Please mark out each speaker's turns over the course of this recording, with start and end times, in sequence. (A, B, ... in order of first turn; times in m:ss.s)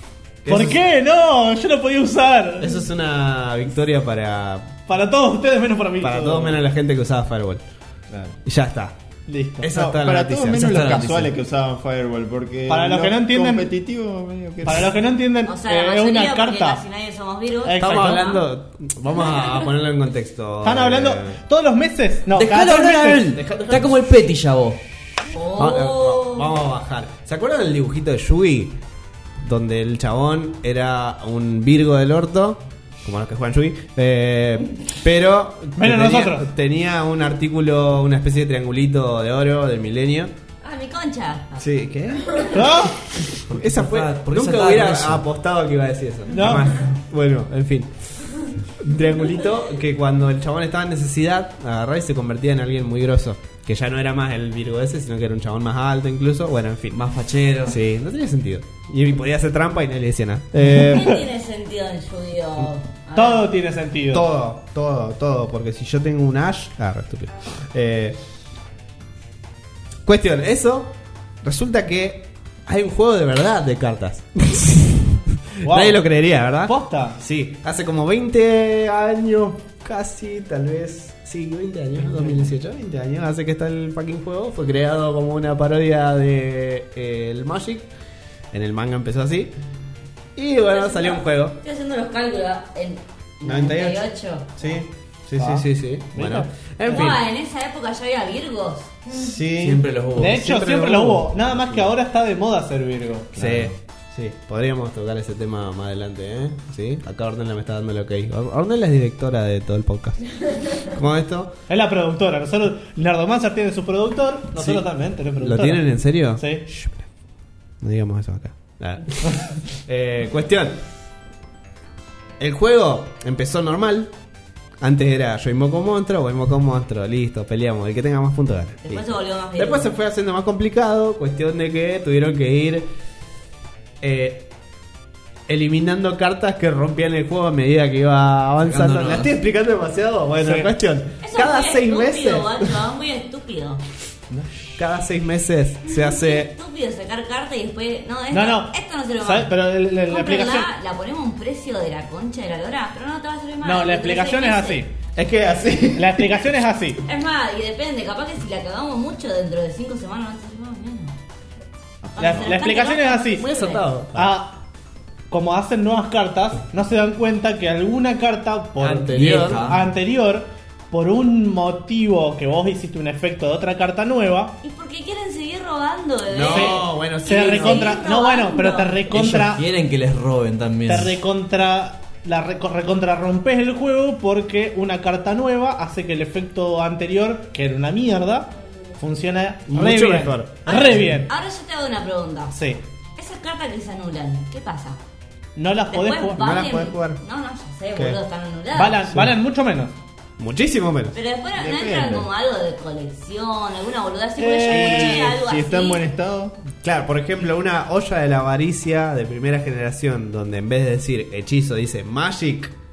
0:00.4-0:00.8 A
0:00.5-0:02.7 B
0:02.6-0:04.7 A
0:04.9-0:06.6 B
0:06.0-0:07.6 A
0:08.1-0:08.4 C
0:08.4-0:08.9 A
0:09.3-0:09.7 B
0:09.6-0:10.9 A
0:09.7-0:14.9 C
0:10.5-0:11.3 D
0:12.7-0:13.7 B
0:14.6-0:16.8 B
0:15.4-0:18.4 E
0:17.6-0:18.3 B
0:17.7-0:21.4 A
0:20.6-0:23.8 B
0:22.3-0:24.8 D
0:25.3-0:26.5 E
0:25.6-0:28.8 A
0:29.4-0:40.3 A
0:35.8-0:36.5 B
0:40.6-0:41.6 E
0:41.6-0:42.7 A
0:42.2-0:42.5 E
0:42.5-0:43.0 B
0:43.4-0:45.2 D
0:43.5-0:57.0 A
0:46.3-0:46.7 B
0:56.9-0:57.8 D
0:57.6-1:01.2 A
1:00.7-1:03.5 E
1:03.1-1:04.3 B
1:04.1-1:08.2 A
1:10.0-1:27.9 A
1:15.6-1:16.0 B
1:16.6-1:17.2 B
1:28.5-1:29.5 A
1:30.4-1:31.6 A
1:30.7-1:34.6 E
1:33.4-1:34.0 A
1:34.6-1:37.2 A
1:35.4-1:37.2 B
1:36.8-1:39.0 E
1:39.1-1:39.8 A
1:39.6-1:40.4 D
1:40.2-1:43.3 B
1:40.4-1:41.9 A
1:43.3-1:43.7 C
1:43.4-1:50.2 A
1:50.8-1:51.5 A
1:51.7-1:56.6 B
1:54.5-1:57.1 A
1:57.8-2:00.8 A
2:02.4-2:04.1 A
2:04.8-2:12.9 A
2:08.8-2:09.9 E
2:14.0-2:14.5 A
2:15.5-2:22.7 A
2:18.6-2:19.3 D
2:20.4-2:20.7 B
2:21.2-2:23.8 E
2:24.8-2:26.5 A
2:25.9-2:29.5 E
2:28.3-2:30.7 B
2:30.0-2:34.8 E
2:33.6-2:34.9 B
2:35.2-2:36.1 A
2:35.9-2:37.0 B
2:37.0-2:41.1 E
2:42.1-2:43.8 E
2:42.2-2:43.4 B
2:43.3-2:44.4 A
2:44.1-2:44.6 B
2:45.3-2:54.6 B
2:48.8-2:49.7 A
2:49.1-2:49.8 D
2:54.6-2:59.0 E
2:56.3-2:58.0 A
2:56.5-2:59.6 B
2:59.1-3:01.2 D
3:00.9-3:11.3 B
3:09.7-3:11.2 A
3:10.6-3:12.5 E
3:12.5-3:12.8 B
3:13.2-3:15.0 E
3:15.6-3:16.5 B
3:15.9-3:19.0 E
3:16.4-3:17.2 A
3:18.7-3:19.9 B
3:20.4-3:21.2 A
3:21.1-3:26.0 E
3:21.6-3:22.3 C
3:24.4-3:25.3 B
3:24.7-3:26.6 C
3:26.7-3:32.7 A